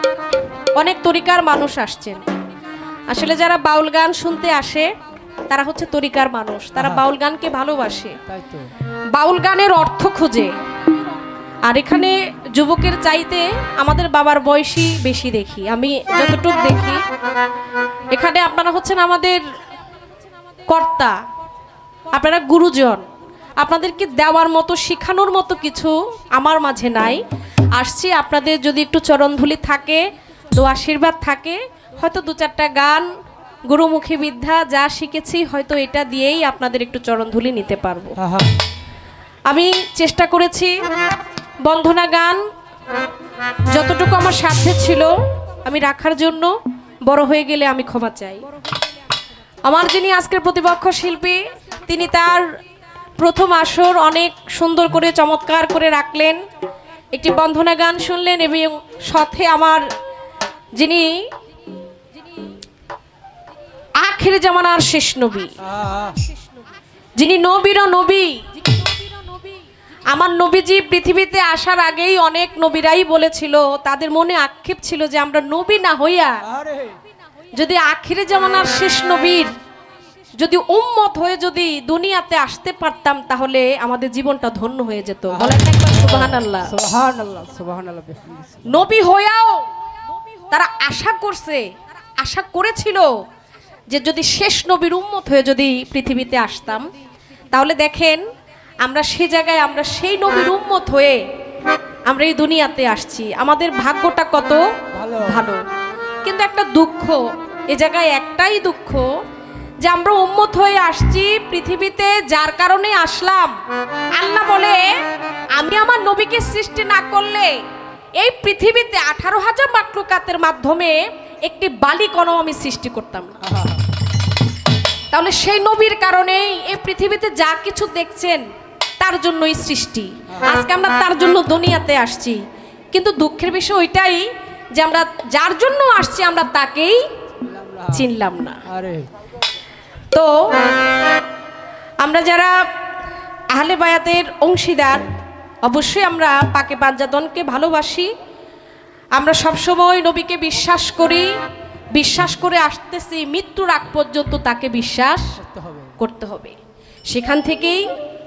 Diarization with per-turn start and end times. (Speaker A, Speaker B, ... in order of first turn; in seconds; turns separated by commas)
Speaker A: 0.7-2.2, Speaker A: 3.1-4.9, Speaker A: 5.5-8.2, Speaker B: 8.3-8.7, Speaker A: 9.1-10.6, Speaker A: 11.6-17.0, Speaker A: 18.1-19.4, Speaker A: 20.6-21.2, Speaker A: 22.1-23.1, Speaker A: 23.6-33.1, Speaker A: 33.7-38.2, Speaker B: 38.2-38.6, Speaker A: 39.5-40.8, Speaker A: 41.6-42.5, Speaker A: 43.7-48.5, Speaker A: 49.6-52.6, Speaker A: 53.2-56.4, Speaker A: 57.1-59.9, Speaker A: 60.7-61.3, Speaker A: 64.0-65.6, Speaker B: 65.6-66.2, Speaker A: 67.2-69.5, Speaker A: 70.1-76.5, Speaker B: 76.5-77.0, Speaker A: 77.5-79.5, Speaker A: 80.4-86.8, Speaker B: 86.2-88.8, Speaker A: 88.6-89.7, Speaker A: 90.4-93.2, Speaker A: 93.9-96.9, Speaker A: 97.5-98.2, Speaker A: 98.8-101.2, Speaker A: 102.1-105.6, Speaker B: 104.9-105.4, Speaker A: 106.2-109.2, Speaker A: 109.8-113.6, Speaker A: 114.1-117.6, Speaker A: 118.2-123.5, Speaker B: 123.4-123.8, Speaker A: 125.1-128.5, Speaker A: 129.0-137.1, Speaker B: 137.4-138.0, Speaker A: 137.9-138.6, Speaker B: 138.7-139.1, Speaker A: 140.1-140.7, Speaker A: 142.0-142.7, Speaker A: 143.5-148.1, Speaker A: 149.1-151.4, Speaker A: 151.9-155.4, Speaker B: 155.4-155.9, Speaker A: 155.9-156.6, Speaker A: 157.1-157.9